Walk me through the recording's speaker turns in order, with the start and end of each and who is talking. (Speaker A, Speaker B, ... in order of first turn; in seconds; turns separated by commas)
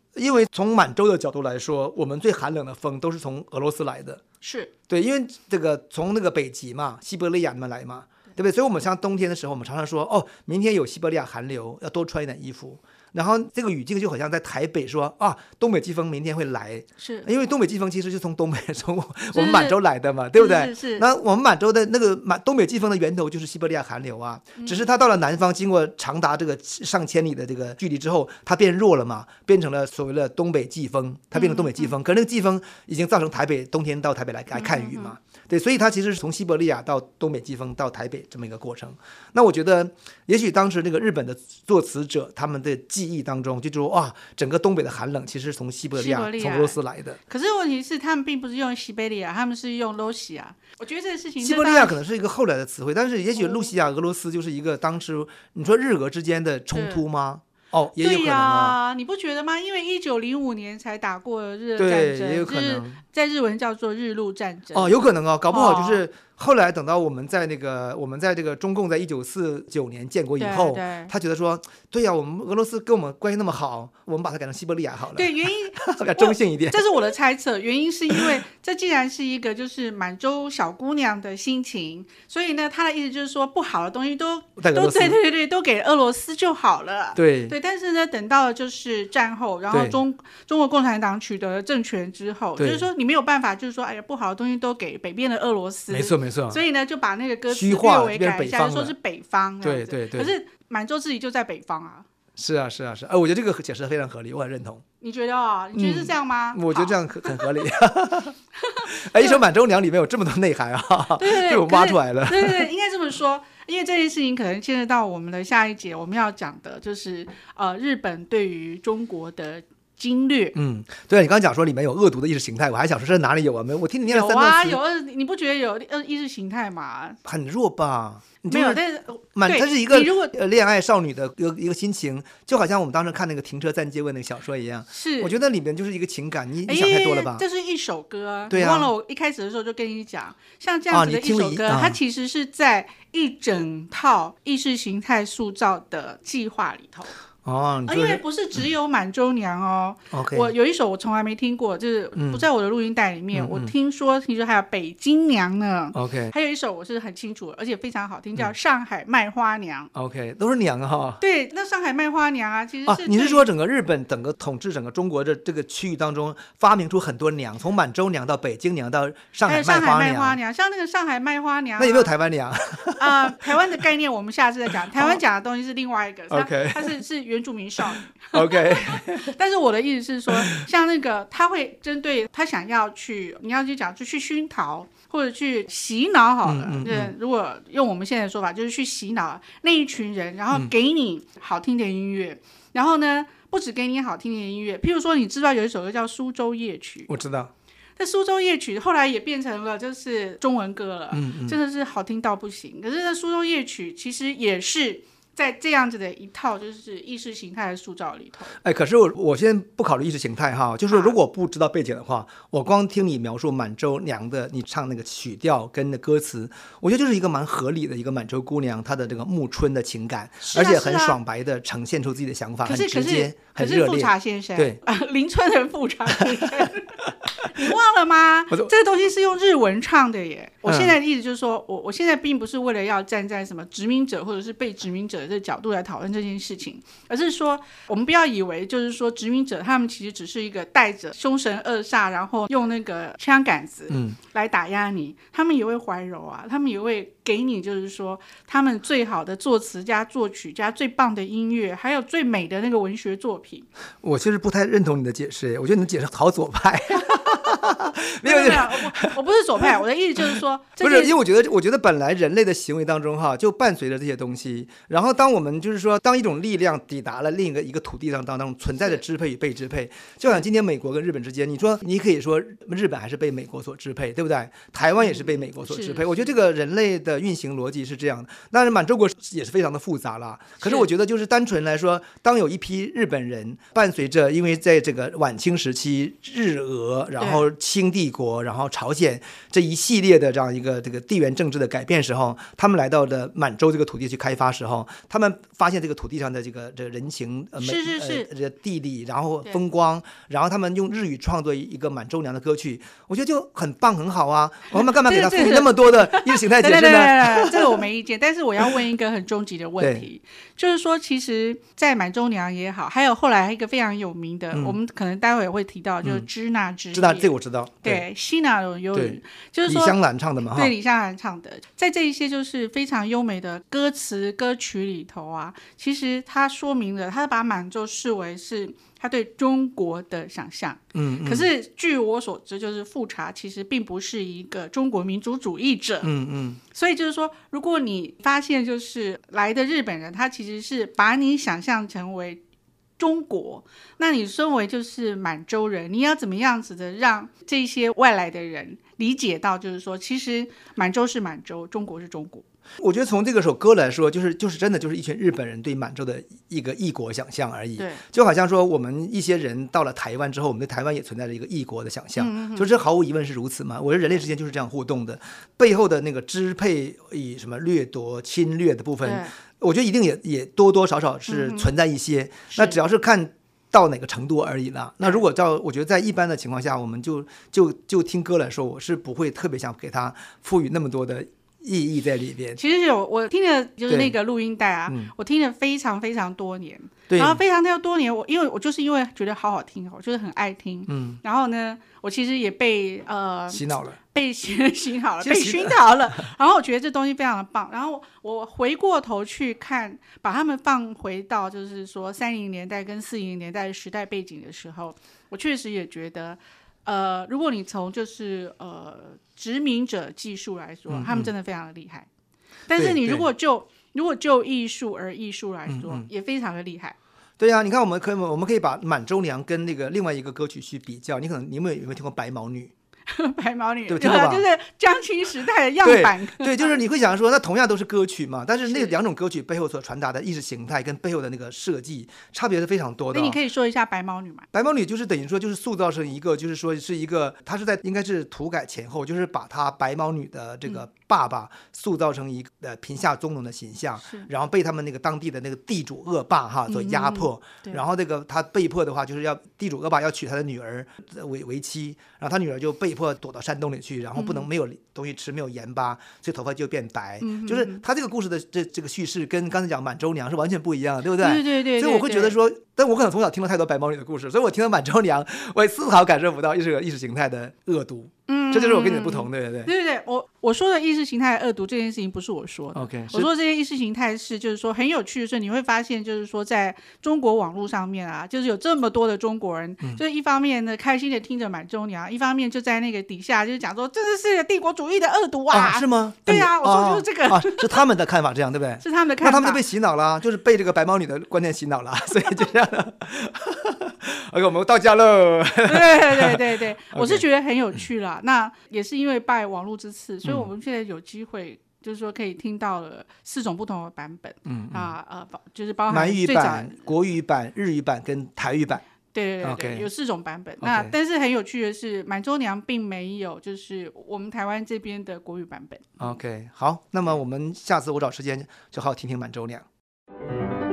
Speaker A: 0.1-4.2, Speaker B: 4.4-4.7, Speaker A: 4.9-47.2, Speaker B: 17.0-17.3, Speaker B: 19.3-19.8, Speaker B: 20.3-21.0, Speaker B: 24.6-24.8, Speaker B: 31.4-31.9, Speaker B: 34.5-35.1, Speaker B: 46.0-52.0, Speaker A: 51.4-58.8, Speaker B: 53.4-53.7, Speaker B: 56.7-57.0, Speaker B: 58.0-66.0, Speaker A: 61.8-63.0, Speaker A: 64.7-76.8, Speaker B: 70.4-71.1, Speaker B: 75.2-102.1, Speaker A: 84.6-85.2, Speaker A: 87.2-87.5, Speaker A: 89.7-90.0, Speaker A: 92.6-92.9, Speaker A: 95.9-96.6, Speaker A: 97.5-98.9, Speaker A: 99.6-100.3, Speaker A: 102.4-104.8, Speaker B: 105.0-107.5, Speaker A: 105.7-112.7, Speaker B: 108.6-109.4, Speaker B: 111.2-120.6, Speaker A: 120.5-124.8, Speaker B: 124.1-127.2, Speaker A: 127.2-137.4, Speaker B: 128.5-130.3, Speaker B: 134.9-135.3, Speaker B: 136.7-147.1, Speaker A: 138.5-138.9, Speaker A: 140.9-142.0, Speaker A: 147.4-148.2, Speaker B: 147.9-159.9, Speaker A: 150.1-150.5, Speaker A: 152.2-152.4, Speaker A: 153.3-153.7, Speaker A: 155.9-156.3, Speaker A: 159.9-161.2, Speaker B: 161.2-163.4, Speaker A: 162.9-170.4, Speaker B: 169.5-172.1, Speaker A: 171.8-173.7, Speaker B: 173.0-197.1, Speaker A: 174.9-175.2, Speaker A: 176.3-177.0, Speaker A: 178.3-179.3, Speaker A: 180.4-180.7, Speaker A: 186.4-187.1, Speaker A: 197.1-197.5, Speaker B: 198.0-208.6, Speaker A: 201.1-201.6, Speaker A: 208.6-224.8, Speaker B: 210.9-211.2, Speaker B: 220.4-221.2, Speaker B: 222.7-253.7, Speaker A: 226.1-226.7, Speaker A: 230.7-231.0, Speaker A: 243.9-244.2, Speaker A: 254.0-259.1, Speaker B: 258.2-261.1, Speaker A: 260.3-307.9, Speaker B: 268.8-269.0, Speaker B: 275.1-276.3, Speaker B: 280.6-280.9, Speaker B: 287.2-287.4, Speaker B: 297.6-298.3, Speaker B: 304.7-317.3, Speaker A: 309.8-310.1, Speaker A: 314.5-314.8, Speaker A: 316.9-318.1, Speaker B: 317.8-320.0, Speaker A: 318.9-320.7, Speaker B: 320.5-336.1, Speaker A: 330.9-331.5, Speaker A: 336.0-336.6, Speaker B: 336.7-342.4, Speaker B: 343.0-352.4, Speaker A: 352.8-382.6, Speaker B: 357.8-358.0, Speaker B: 362.2-362.7, Speaker B: 369.0-369.3, Speaker B: 371.3-371.7, Speaker B: 372.5-372.8, Speaker B: 382.6-412.1, Speaker A: 383.9-384.2, Speaker A: 384.9-385.1, Speaker A: 387.1-387.4, Speaker A: 390.9-391.2, Speaker A: 393.5-394.0, Speaker A: 395.2-396.3, Speaker A: 410.9-411.3, Speaker B: 412.7-417.0, Speaker A: 412.7-413.3, Speaker A: 415.7-416.1, Speaker A: 417.4-422.7, Speaker B: 423.1-426.8, Speaker A: 423.9-424.5, Speaker A: 425.8-433.4, Speaker B: 428.7-428.9, Speaker B: 433.1-434.5, Speaker A: 434.5-469.7, Speaker B: 446.7-447.8, Speaker B: 454.2-454.5, Speaker B: 457.2-457.8, Speaker B: 461.2-462.4, Speaker B: 468.3-487.8, Speaker A: 472.7-473.3, Speaker A: 485.5-497.2, Speaker B: 488.8-489.6, Speaker B: 495.6-506.9, Speaker A: 500.2-500.5, Speaker A: 504.5-504.9, Speaker A: 505.9-508.9, Speaker B: 509.1-516.2, Speaker A: 509.4-509.9, Speaker A: 510.6-510.9, Speaker A: 516.0-519.6